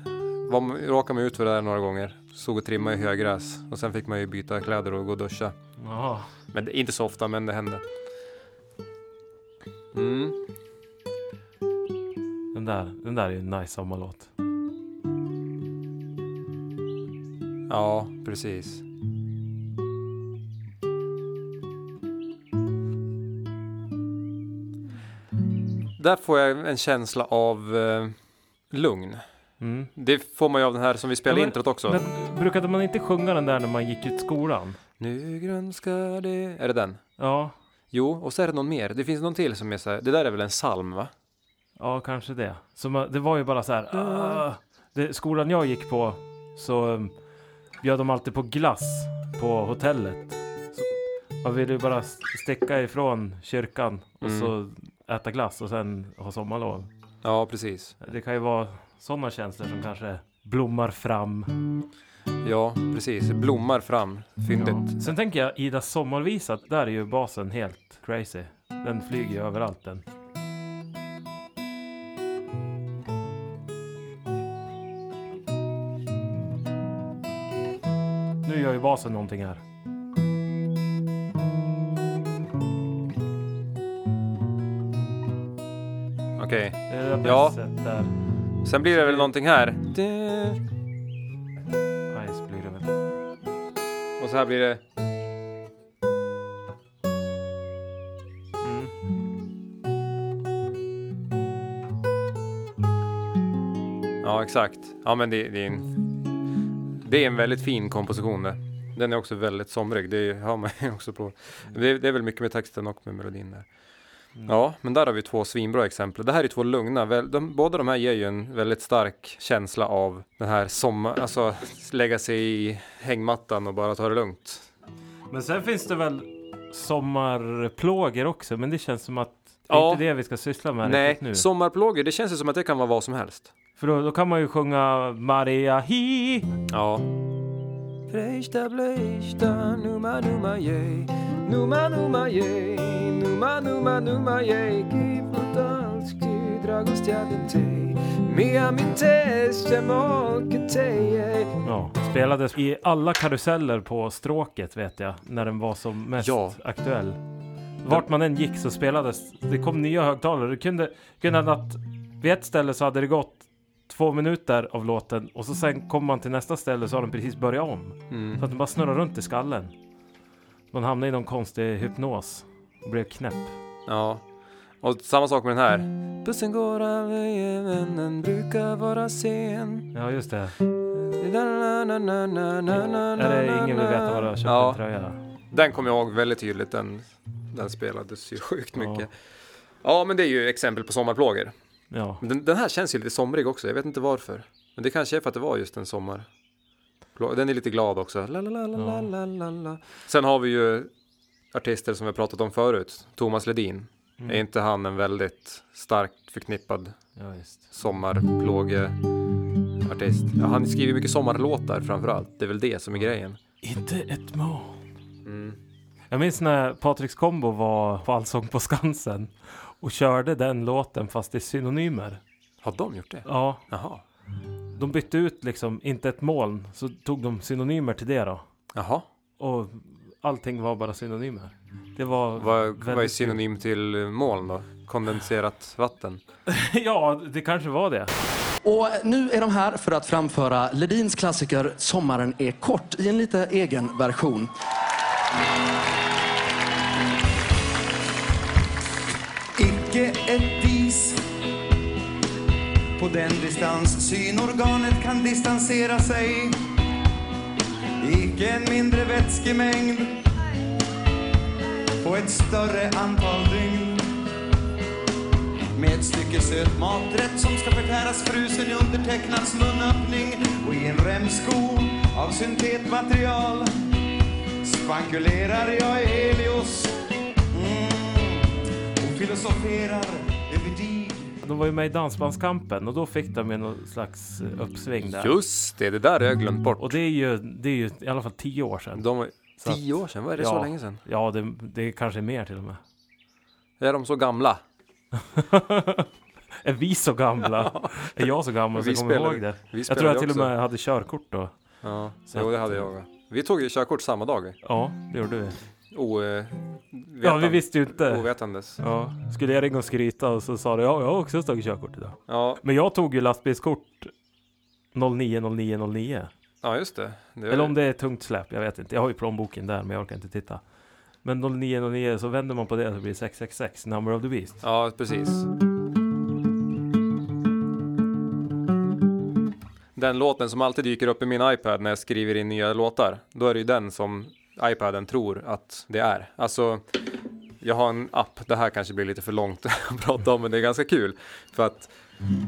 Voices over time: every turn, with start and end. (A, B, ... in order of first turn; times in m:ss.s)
0:00.4-0:05.5 A
0:05.8-0:06.3 B
0:06.5-0:07.8 A
0:09.9-0:10.4 A
0:12.5-0:14.3 B
0:17.7-0:18.8 A
0:26.0-0:28.2 A
0:28.7-0:29.2 A
0:29.6-0:29.9 B
0:29.9-0:32.0 A
0:31.3-0:34.8 B
0:35.0-0:37.0 A
0:37.2-0:37.5 B
0:37.9-0:41.1 A
0:41.8-0:47.1 B
0:43.9-0:44.4 A
0:47.8-0:50.9 B
0:51.4-0:56.9 B
0:54.2-0:54.5 A
0:57.2-0:57.9 A
0:58.0-1:01.5 B
1:02.4-1:05.1 A
1:04.5-1:10.0 B
1:18.4-1:19.6 B
1:26.4-1:27.6 A
1:26.9-1:28.1 B
1:28.6-1:30.6 A
1:32.1-1:32.9 B
1:34.2-1:34.8 A
1:38.6-1:38.9 B
1:44.2-1:46.0 A
1:47.0-1:53.7 A
1:54.4-2:04.7 A
2:05.3-2:11.4 B
2:09.7-2:10.0 A
2:10.8-2:13.5 A
2:13.8-2:16.5 B
2:16.7-2:17.1 A
2:18.1-2:31.6 A
2:31.6-2:37.2 B
2:36.2-2:36.6 A
2:37.8-2:49.7 B
2:48.1-2:48.4 A
2:50.7-2:53.6 B
2:53.9-2:54.2 A
2:54.8-2:59.9 A
2:59.9-3:00.6 B
3:00.9-3:04.8 A
3:03.1-3:05.2 B
3:05.5-3:09.1 A
3:08.8-3:09.0 B
3:09.8-3:11.5 A
3:11.9-3:12.2 B
3:12.2-3:16.3 A
3:17.2-3:20.9 A
3:18.8-3:19.1 B
3:21.5-3:27.0 A
3:24.2-3:24.4 B
3:27.2-3:27.7 B
3:27.7-3:29.0 A
3:29.8-3:33.4 A
3:33.6-3:34.8 B
3:35.2-3:35.6 A
3:36.1-3:42.2 B
3:42.6-3:44.0 A
3:43.2-3:43.6 B
3:44.8-3:48.4 B
3:48.7-3:49.0 A
3:49.4-3:53.4 B
3:52.4-3:56.2 A
3:56.5-3:58.1 B
3:58.6-4:04.5 C
4:09.6-4:11.3 D
4:13.0-4:16.6 D
4:18.0-4:20.2 D
4:22.0-4:24.1 D
4:25.7-4:33.7 D
4:34.6-4:37.0 D
4:37.5-4:41.3 D
4:41.4-4:45.3 B
4:45.0-4:47.0 A
4:46.8-4:52.8 B
4:48.9-4:51.0 A
4:53.8-4:54.6 A
4:55.3-4:56.1 B
4:56.6-5:01.5 B
4:57.4-5:00.5 A
5:01.8-5:04.6 A
5:02.3-5:02.8 B
5:04.6-5:05.6 B
5:05.9-5:08.8 A
5:07.2-5:08.3 B
5:08.8-5:14.1 B
5:12.3-5:12.6 A
5:14.9-5:16.3 B
5:16.6-5:17.7 A
5:17.5-5:20.6 B
5:21.2-5:24.6 B
5:24.6-5:25.4 A
5:30.0-5:37.0 A
5:37.6-5:41.9 A